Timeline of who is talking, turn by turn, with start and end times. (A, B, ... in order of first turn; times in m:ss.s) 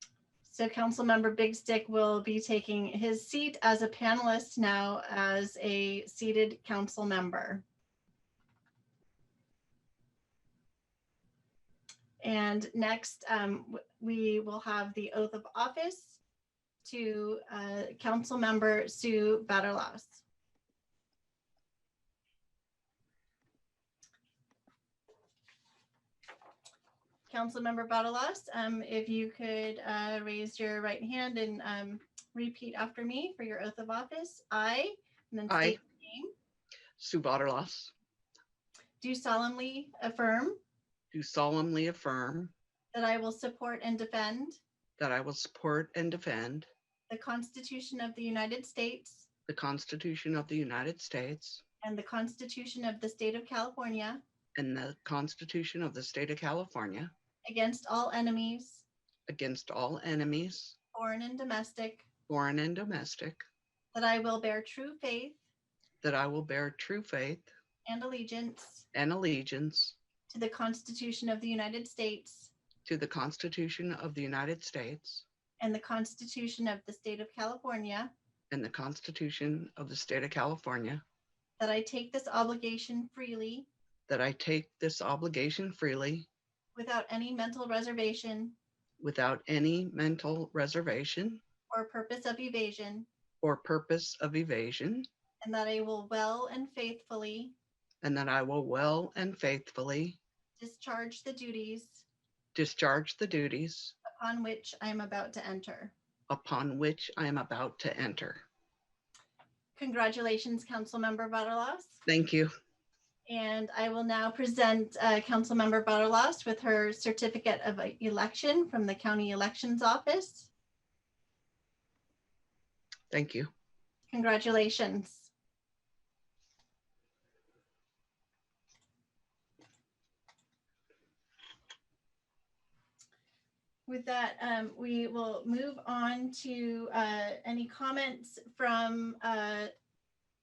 0:00.4-0:07.6 A
0:12.2-0:16.2 A
0:16.8-0:20.2 A
0:27.3-0:36.3 A
0:35.5-0:35.8 B
0:37.0-0:37.9 B
0:39.0-0:40.6 A
0:41.1-0:42.5 B
0:42.9-0:44.6 A
0:45.0-0:46.7 B
0:47.1-0:49.3 A
0:49.5-0:51.6 B
0:51.8-0:54.2 A
0:54.6-0:57.1 B
0:57.4-0:58.8 A
0:59.3-1:00.8 B
1:00.9-1:02.1 A
1:02.3-1:03.4 B
1:03.9-1:05.4 A
1:06.0-1:07.5 B
1:07.8-1:08.9 A
1:08.9-1:10.0 B
1:10.3-1:12.5 A
1:12.9-1:15.2 B
1:15.6-1:18.1 A
1:18.5-1:21.0 B
1:21.6-1:23.7 A
1:24.1-1:26.3 B
1:26.8-1:28.6 A
1:29.0-1:31.4 B
1:31.7-1:33.1 A
1:33.4-1:35.1 B
1:35.4-1:37.6 A
1:38.0-1:40.2 B
1:40.6-1:42.0 A
1:42.6-1:43.9 B
1:44.0-1:45.9 A
1:46.3-1:48.4 B
1:49.8-1:52.0 A
1:52.1-1:52.5 B
1:53.3-2:00.5 A
2:03.1-2:03.5 B
2:04.1-2:05.3 A
2:13.9-2:19.7 A